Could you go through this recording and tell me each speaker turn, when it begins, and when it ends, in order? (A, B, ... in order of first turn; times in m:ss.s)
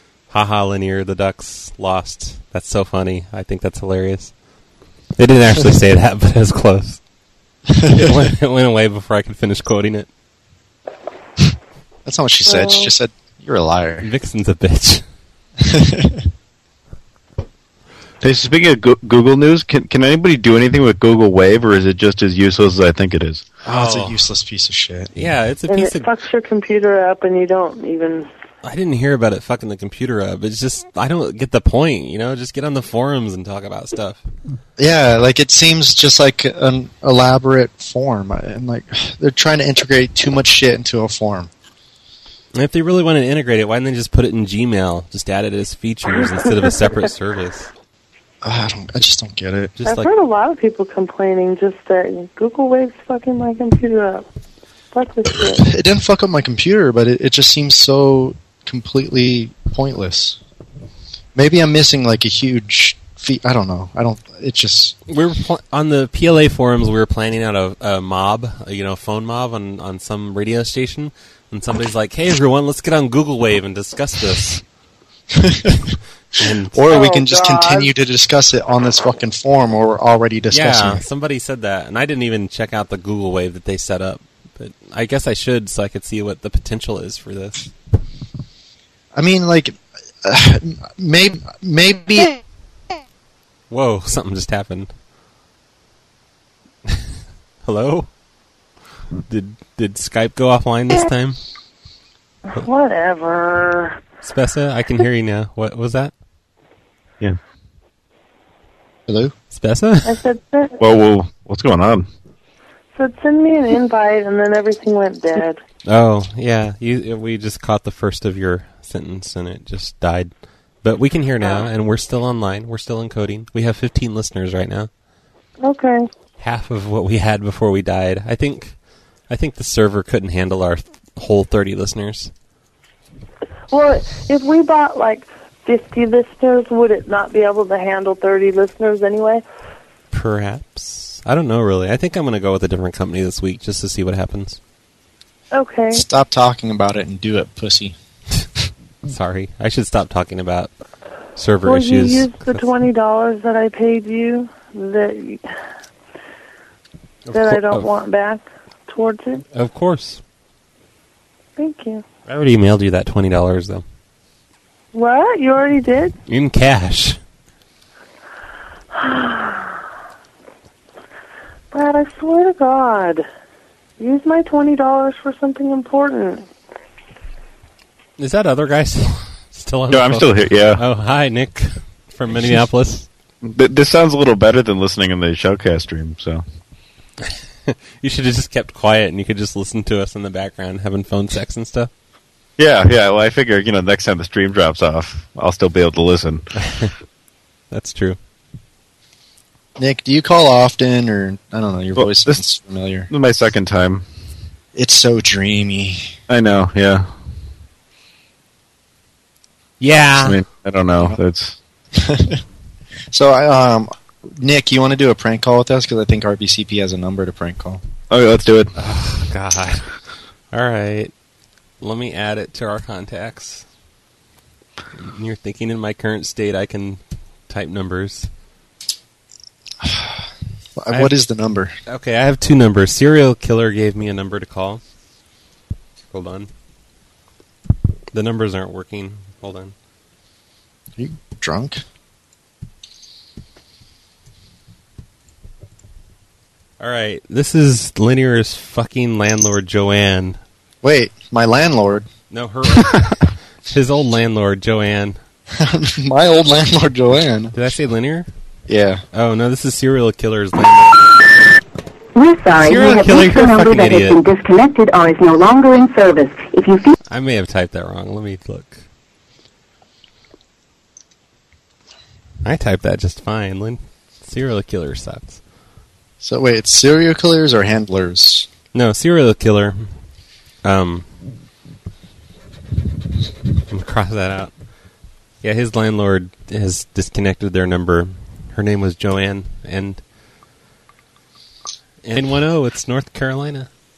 0:00.3-0:04.3 A
0:05.2-0:07.0 A
0:07.8-0:08.3 B
0:07.9-0:10.1 A
0:12.0-0:14.1 B
0:12.4-0:12.9 C
0:14.0-0:15.0 A
0:15.6-0:16.3 B
0:18.2-0:23.4 D
0:23.6-0:25.1 B
0:23.7-0:24.2 A
0:25.1-0:26.1 A
0:25.7-0:28.3 C
0:28.6-0:34.2 A
0:34.8-0:41.5 B
0:42.6-0:47.7 A
0:48.4-0:49.8 B
0:49.8-0:50.1 A
0:49.8-0:54.3 C
0:54.9-0:55.6 C
0:55.6-1:00.4 B
1:01.3-1:04.9 B
1:05.1-1:14.6 A
1:15.4-1:15.9 B
1:16.4-1:16.9 A
1:16.7-1:21.0 B
1:17.0-1:17.8 C
1:20.5-1:27.6 A
1:29.1-1:32.3 B
1:33.7-1:34.9 A
1:37.6-1:38.1 A
1:39.3-1:41.4 A
1:42.6-1:44.0 C
1:44.2-1:46.1 A
1:49.1-1:49.3 B
1:49.5-1:50.2 A
1:50.1-1:50.7 C
1:50.8-1:52.1 D
1:52.9-1:55.6 C
1:55.9-2:00.3 A
2:00.8-2:04.9 A
2:05.6-2:06.1 C
2:06.4-2:08.7 A
2:09.3-2:12.3 A
2:13.7-2:19.4 C
2:20.1-2:24.6 A
2:25.5-2:26.0 C
2:25.9-2:27.9 B
2:29.1-2:30.7 A
2:31.4-2:32.7 A
2:31.6-2:35.4 C
2:37.3-2:37.9 A
2:37.3-2:39.4 C
2:39.5-2:40.2 A
2:41.6-2:42.0 C
2:42.3-2:43.8 A
2:44.9-2:46.1 C
2:46.3-2:47.2 A
2:48.9-2:49.7 C
2:51.7-2:53.3 C
2:54.0-2:56.5 C
2:58.2-3:03.1 A
2:59.9-3:00.8 D
3:03.4-3:06.4 D
3:07.7-3:11.9 A
3:12.6-3:16.4 D
3:16.6-3:16.9 A
3:17.7-3:18.2 A
3:19.8-3:23.1 B
3:22.0-3:22.4 D
3:23.1-3:24.0 D
3:24.7-3:26.2 B
3:26.3-3:27.1 D
3:29.8-3:30.4 A
3:30.1-3:31.6 D
3:31.9-3:32.4 B
3:33.1-3:37.8 B
3:38.1-3:38.7 D
3:38.8-3:39.9 A
3:40.5-3:41.1 A
3:41.8-3:43.6 A
3:45.0-3:48.3 A
3:49.8-3:51.7 B
3:51.9-3:54.8 A
3:56.1-3:56.5 A
3:58.1-3:59.7 A
4:01.0-4:01.8 B
4:06.8-4:10.4 A
4:10.8-4:12.1 B
4:12.3-4:15.2 A
4:15.5-4:17.6 B
4:17.6-4:18.3 A
4:18.7-4:19.0 B
4:19.1-4:21.0 A
4:22.1-4:26.9 E
4:22.6-4:24.2 A
4:27.1-4:28.8 A
4:32.4-4:35.4 A
4:36.2-4:38.5 B
4:38.7-4:39.9 A
4:40.6-4:41.0 A
4:43.7-4:44.5 A
4:45.4-4:50.0 A
4:52.0-4:53.7 A